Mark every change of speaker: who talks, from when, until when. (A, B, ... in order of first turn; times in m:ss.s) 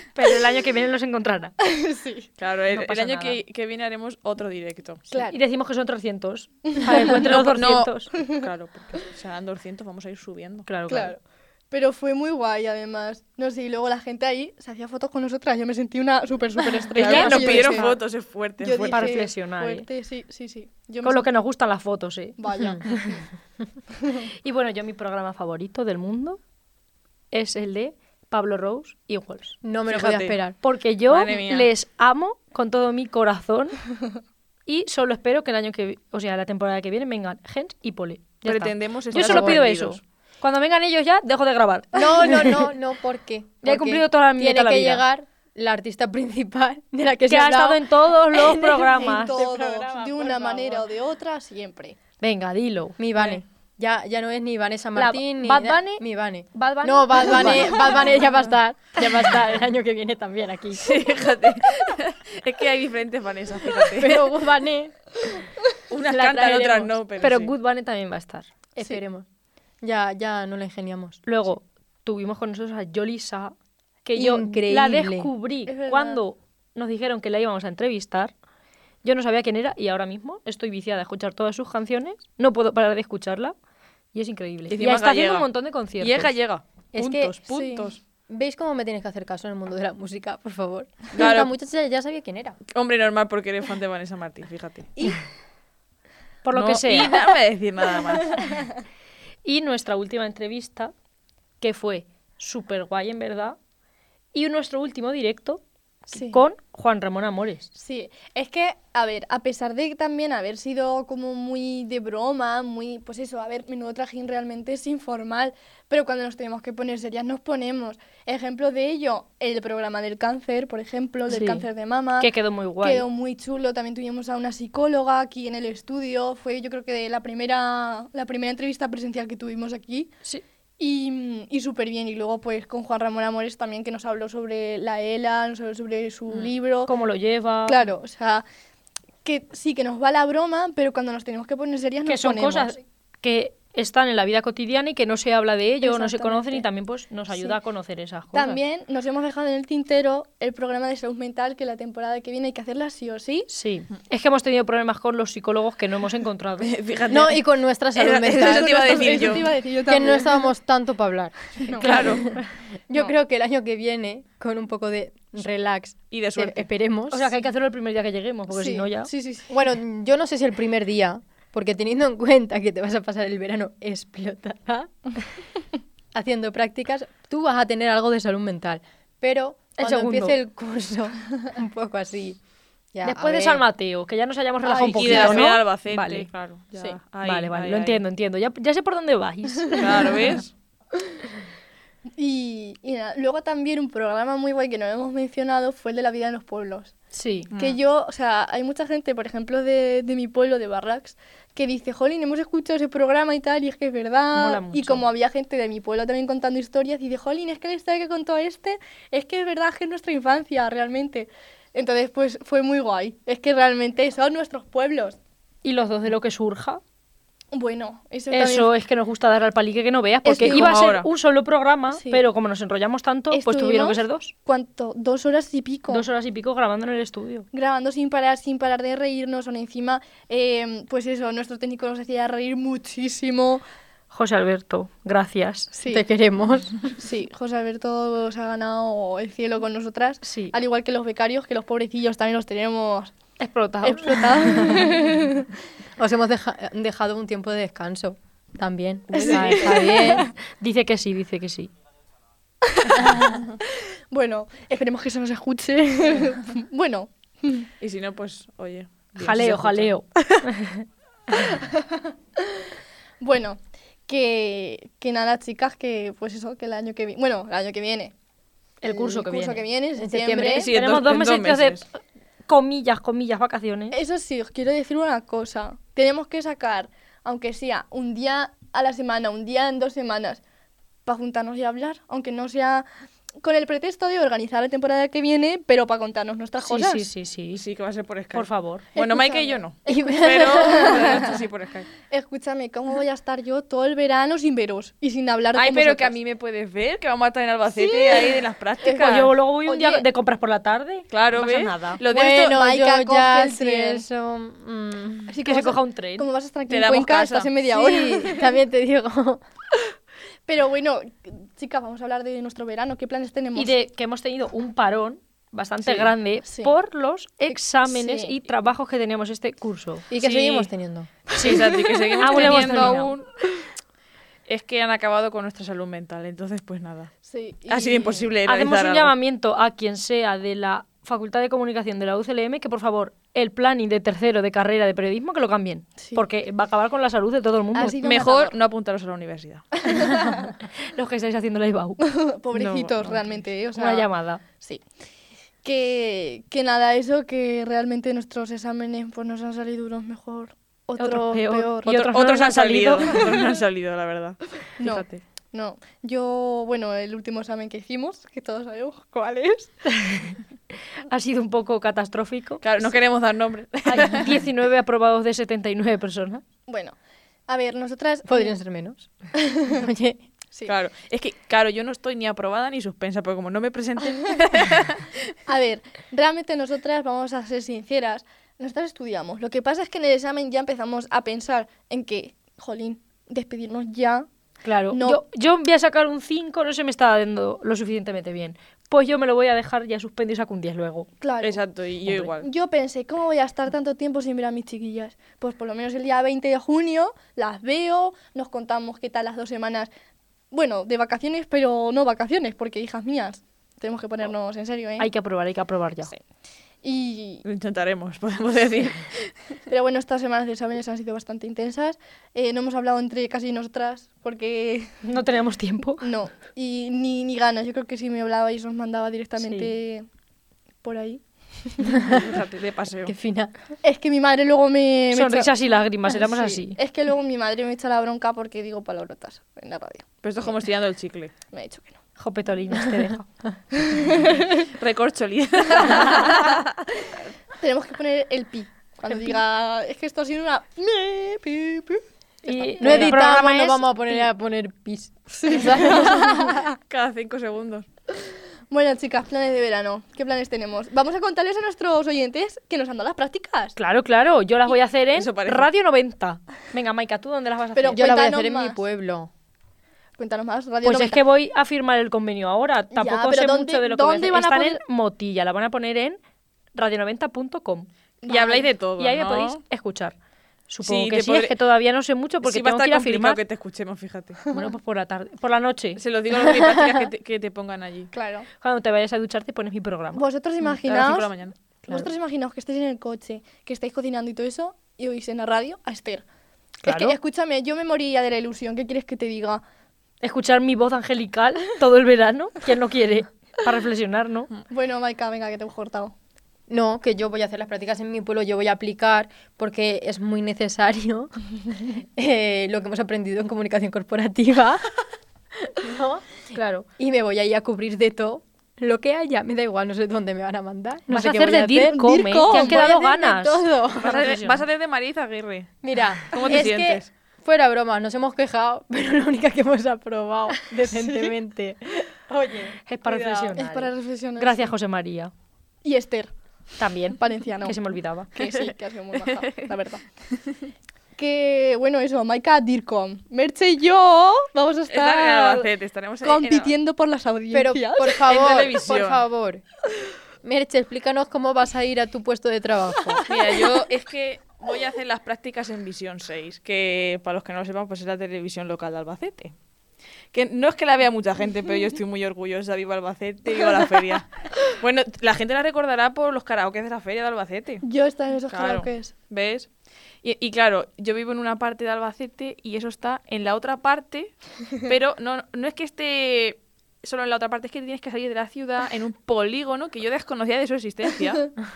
0:00.1-0:01.5 A
0:01.6-0:02.3 B
0:02.4-0:05.0 C
0:02.7-0:03.4 A
0:05.1-0:05.4 B
0:05.1-0:08.1 A
0:06.7-0:07.2 B
0:07.1-0:10.7 C
0:10.6-0:11.1 A
0:10.9-0:11.2 B
0:11.7-0:18.0 B
0:17.0-0:19.0 C
0:17.0-0:17.9 A
0:18.6-0:21.3 B
0:18.9-0:19.9 A
0:21.0-0:22.4 A
0:22.4-0:23.2 B
0:24.4-0:26.4 A
0:27.3-0:29.6 A
0:29.6-0:30.6 D
0:29.9-0:30.4 C
0:30.6-0:33.8 A
0:31.1-0:31.7 C
0:34.7-0:42.7 A
0:38.4-0:40.0 C
0:39.1-0:39.6 D
0:41.9-0:50.6 D
0:43.6-0:45.0 A
0:47.3-0:49.4 A
0:48.9-0:52.0 B
0:50.2-0:50.8 A
0:52.2-0:53.0 A
0:53.0-1:00.9 D
0:54.9-0:58.2 A
0:57.4-0:57.9 B
1:00.8-1:04.2 C
1:03.9-1:05.0 D
1:05.9-1:07.5 C
1:06.1-1:08.5 A
1:08.8-1:09.2 D
1:09.8-1:11.2 D
1:11.2-1:13.5 A
1:14.0-1:18.3 A
1:14.1-1:15.3 D
1:15.7-1:16.2 B
1:19.0-1:23.5 A
1:24.1-1:26.3 A
1:24.7-1:25.5 C
1:26.0-1:28.0 C
1:26.9-1:27.4 D
1:27.5-1:27.9 B
1:28.3-1:32.6 D
1:31.1-1:31.5 C
1:32.7-1:34.9 C
1:36.4-1:37.1 A
1:36.5-1:38.4 C
1:39.4-1:40.9 A
1:41.6-1:43.6 A
1:44.3-1:47.7 A
1:46.1-1:46.4 B
1:47.7-2:10.1 B
2:01.3-2:01.6 A
2:02.2-2:03.0 A
2:10.8-2:16.9 B
2:16.9-2:17.8 A
2:17.6-2:18.4 B
2:19.2-2:22.8 B
2:22.0-2:28.6 A
2:25.8-2:26.6 B
2:28.3-2:33.5 B
2:33.5-2:36.7 A
2:36.6-2:39.5 C
2:37.1-2:47.3 D
2:38.3-2:40.4 B
2:41.6-2:42.4 B
2:41.8-2:42.3 C
2:46.1-2:46.7 C
2:47.1-2:49.1 A
2:48.5-2:49.5 B
2:49.5-2:54.9 D
2:56.1-3:02.4 D
2:59.8-3:00.4 A
3:02.9-3:03.6 D
3:03.0-3:06.3 A
3:04.6-3:05.4 B
3:04.8-3:08.0 C
3:07.2-3:10.2 A
3:09.8-3:10.5 C
3:12.2-3:16.9 B
3:17.1-3:17.5 A
3:17.5-3:17.8 C
3:17.6-3:35.2 B
3:24.3-3:25.1 A
3:35.6-3:36.8 A
3:37.5-3:38.7 B
3:38.3-3:44.3 A
3:40.2-3:40.9 B
3:40.4-3:41.1 C
3:41.9-3:42.2 B
3:43.3-3:46.0 B
3:45.9-3:47.4 A
3:47.5-3:53.6 B
3:54.1-3:55.7 A
3:55.7-3:56.0 B
3:55.9-3:56.7 D
3:57.0-4:03.1 B
4:00.2-4:00.5 A
4:03.4-4:04.9 A
4:03.8-4:05.4 B
4:06.0-4:10.3 D
4:09.2-4:09.7 C
4:09.2-4:10.2 B
4:10.6-4:11.7 A
4:12.7-4:13.4 B
4:14.1-4:17.7 B
4:17.8-4:20.3 C
4:19.2-4:20.8 A
4:21.5-4:22.0 B
4:23.2-4:28.1 B
4:28.8-4:29.6 A
4:28.8-4:30.7 B
4:29.9-4:30.7 D
4:30.4-4:31.8 C
4:30.7-4:31.9 A
4:32.5-4:34.0 A
4:33.9-4:40.4 B
4:41.0-4:42.8 B
4:43.4-4:47.0 B
4:46.6-4:47.6 A
4:47.5-4:51.9 C
4:48.3-4:48.8 A
4:49.0-4:51.4 B
4:49.8-4:51.1 D
4:52.1-4:56.2 B
4:55.5-4:59.3 C
4:57.7-5:00.0 B
4:58.9-5:02.0 A
5:01.1-5:02.6 C
5:02.1-5:05.3 D
5:02.1-5:04.0 B
5:05.3-5:08.5 B
5:05.4-5:06.2 A
5:06.7-5:07.5 C
5:07.7-5:09.4 D
5:10.5-5:13.7 B
5:13.5-5:20.0 A
5:15.8-5:16.1 C
5:16.5-5:16.7 B
5:17.5-5:18.4 B
5:20.1-5:21.1 D
5:20.2-5:20.7 C
5:21.4-5:21.6 A
5:21.4-5:23.3 C
5:21.4-5:22.7 B
5:22.2-5:23.1 A
5:24.5-5:27.2 C
5:27.2-5:28.3 B
5:27.7-5:29.1 C
5:28.4-5:38.0 A
5:37.7-5:38.6 B
5:38.0-5:39.7 C
5:39.8-5:40.5 B
5:40.9-5:42.0 A
5:42.0-5:44.8 B
5:42.5-5:43.4 C
5:43.7-5:44.4 A
5:45.6-5:51.9 B
5:51.0-5:53.2 A
5:51.8-5:55.2 C
5:53.2-5:53.5 B
5:54.8-5:59.8 B
6:00.0-6:00.3 A
6:01.1-6:02.6 A
6:02.6-6:04.4 C
6:03.8-6:06.4 A
6:06.7-6:06.9 B
6:07.5-6:08.5 B
6:08.2-6:10.2 D
6:10.6-6:15.2 C
6:15.5-6:24.3 B
6:24.6-6:31.1 A
6:24.9-6:25.2 B
6:31.2-6:31.6 B
6:31.4-6:32.5 C
6:32.4-6:39.9 B
6:40.5-6:45.1 B
6:45.0-6:46.1 A
6:46.8-6:47.4 B
6:47.4-6:49.3 C
6:49.7-6:55.0 B
6:55.0-6:56.0 A
6:56.0-7:00.1 B
6:59.4-6:59.7 A
7:00.8-7:02.2 B
7:02.1-7:03.1 C
7:03.0-7:03.5 D
7:03.8-7:05.5 B
7:05.1-7:06.8 A
7:06.1-7:10.5 B
7:10.2-7:11.3 C
7:11.5-7:12.0 B
7:12.2-7:13.3 A
7:13.8-7:14.7 B
7:14.8-7:16.7 C
7:15.8-7:16.4 B
7:17.6-7:23.5 B
7:22.4-7:24.3 A
7:22.8-7:26.4 D
7:25.4-7:26.8 B
7:26.9-7:27.8 C
7:28.7-7:33.8 B
7:33.8-7:38.2 A
7:35.1-7:35.7 C
7:37.7-7:38.8 B
7:37.9-7:39.3 D
7:40.2-7:41.2 B
7:40.8-7:46.2 A
7:42.9-7:44.8 B
7:46.7-7:47.9 A
7:48.2-7:48.6 B
7:48.3-7:49.6 C
7:49.0-7:50.1 A
7:50.7-7:53.4 A
7:50.8-7:51.5 C
7:52.4-7:54.4 C
7:54.5-7:56.0 A
7:56.0-7:58.1 C
7:56.6-7:56.9 D
7:58.1-7:58.5 B
7:58.6-8:00.2 A
8:00.2-8:01.3 B
8:00.8-8:01.6 C
8:01.9-8:06.2 B
8:06.8-8:07.2 A
8:06.8-8:09.6 B
8:10.2-8:14.5 A
8:14.7-8:16.1 B
8:16.7-8:21.3 D
8:22.2-8:24.9 D
8:25.6-8:26.4 D
8:26.5-8:26.9 A
8:27.0-8:34.3 D
8:31.1-8:34.6 A
8:31.8-8:32.8 B
8:34.0-8:35.7 C
8:35.8-8:43.6 D
8:36.3-8:37.1 C
8:42.9-8:45.3 A
8:43.5-8:44.7 B
8:45.8-8:46.3 B
8:46.8-8:48.4 A
8:47.1-8:50.0 B
8:51.2-8:55.7 B
8:54.9-8:56.7 C
8:56.2-8:58.2 B
8:57.5-8:59.6 D
8:58.2-8:59.2 C
9:00.4-9:03.2 D
9:03.3-9:09.5 C
9:10.3-9:17.8 C
9:17.8-9:19.1 B
9:18.5-9:19.7 C
9:20.2-9:31.6 C